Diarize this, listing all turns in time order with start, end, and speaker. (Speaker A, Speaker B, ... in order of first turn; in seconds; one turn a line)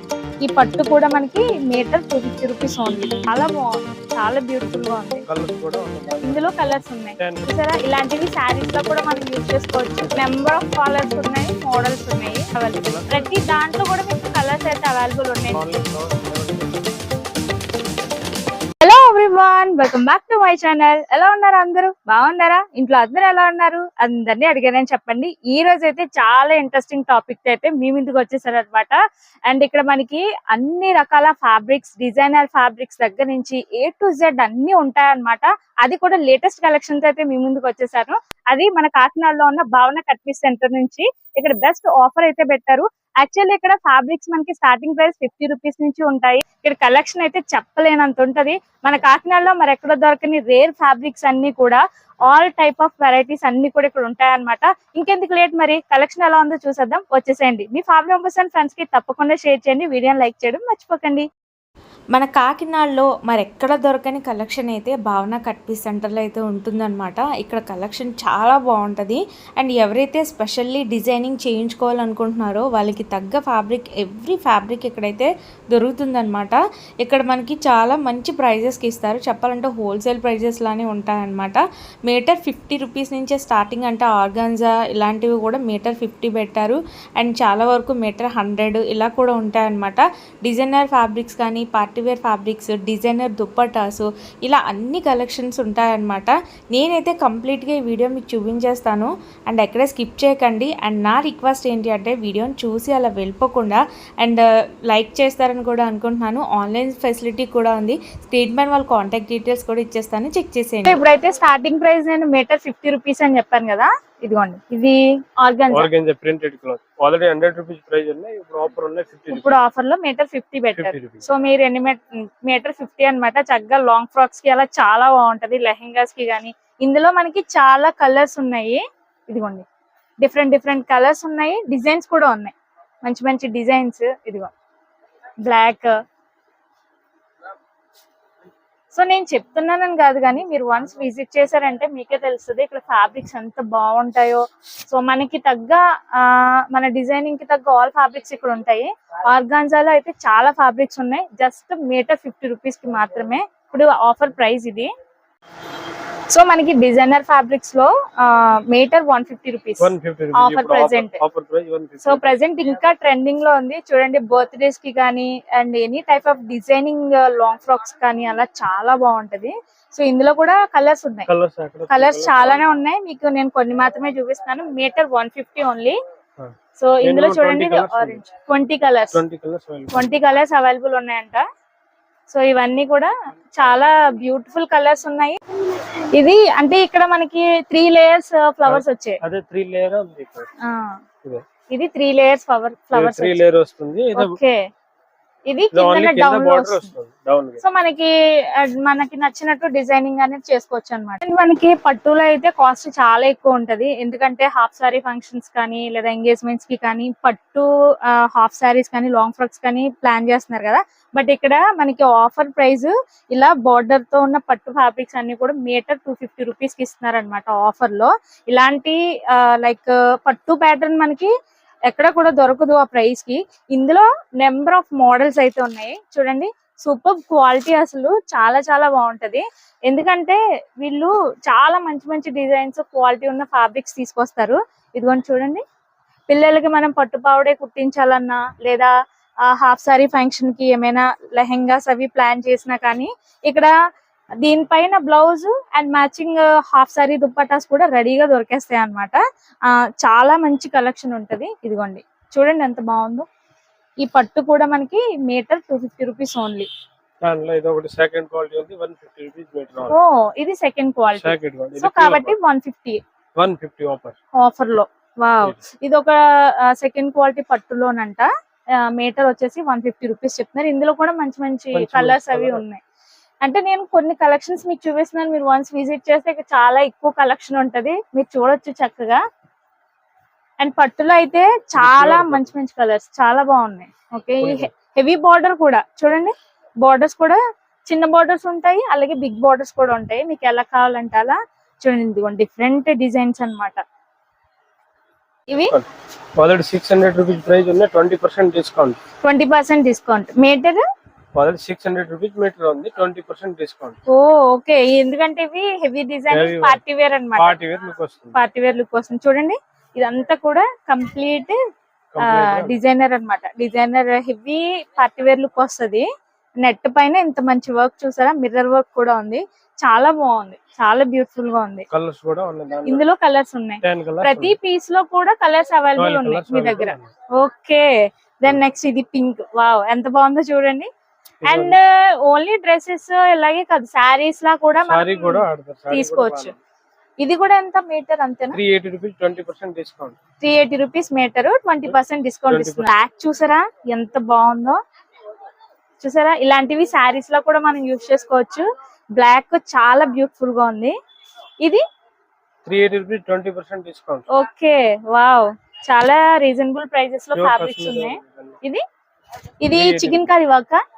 Speaker A: 0.4-5.2
Speaker B: 5.3-7.5
Speaker A: 6.2-15.6
Speaker B: 12.8-13.4
Speaker B: 15.5-16.9
Speaker A: 18.8-29.0
Speaker A: 29.5-61.3
Speaker C: 62.1-111.0
Speaker A: 110.8-115.9
Speaker B: 115.7-119.5
Speaker A: 119.3-129.6
Speaker B: 120.7-121.2
Speaker A: 130.2-134.5
Speaker A: 135.4-135.9
Speaker A: 138.9-154.9
Speaker A: 156.3-161.2
Speaker B: 159.8-162.4
Speaker A: 162.0-171.3
Speaker B: 171.3-172.6
Speaker A: 171.9-176.0
Speaker B: 176.4-178.2
Speaker A: 176.8-179.2
Speaker B: 179.1-180.1
Speaker A: 179.9-181.4
Speaker A: 182.3-185.4
Speaker A: 186.1-189.2
Speaker B: 188.6-190.5
Speaker A: 190.6-190.9
Speaker A: 191.7-193.4
Speaker B: 192.9-194.3
Speaker A: 194.2-194.6
Speaker A: 195.5-196.9
Speaker B: 195.7-197.6
Speaker A: 197.6-221.3
Speaker A: 221.9-235.6
Speaker A: 236.3-238.9
Speaker A: 239.4-243.7
Speaker A: 244.4-253.2
Speaker A: 254.0-256.7
Speaker B: 257.2-260.0
Speaker A: 259.9-263.0
Speaker B: 261.1-262.4
Speaker B: 263.4-264.1
Speaker A: 264.3-272.8
Speaker B: 271.7-272.6
Speaker A: 273.4-279.2
Speaker A: 280.6-293.8
Speaker B: 281.8-282.5
Speaker B: 284.4-284.7
Speaker B: 295.6-295.9
Speaker B: 296.4-299.0
Speaker A: 299.2-300.8
Speaker B: 301.3-304.0
Speaker A: 304.1-307.6
Speaker B: 306.3-306.8
Speaker B: 307.4-308.4
Speaker A: 308.3-311.6
Speaker B: 312.1-312.8
Speaker A: 312.2-316.1
Speaker A: 316.6-321.9
Speaker B: 321.9-323.0
Speaker A: 322.9-330.9
Speaker B: 323.8-324.6
Speaker B: 326.0-327.1
Speaker B: 331.4-331.8
Speaker A: 331.4-336.5
Speaker B: 334.9-336.6
Speaker A: 337.2-338.6
Speaker B: 338.5-340.2
Speaker A: 340.4-344.8
Speaker B: 342.5-342.9
Speaker A: 346.0-348.6
Speaker A: 349.2-350.9
Speaker B: 352.6-354.2
Speaker A: 354.3-358.8
Speaker B: 357.3-358.6
Speaker A: 359.6-360.8
Speaker B: 359.7-360.3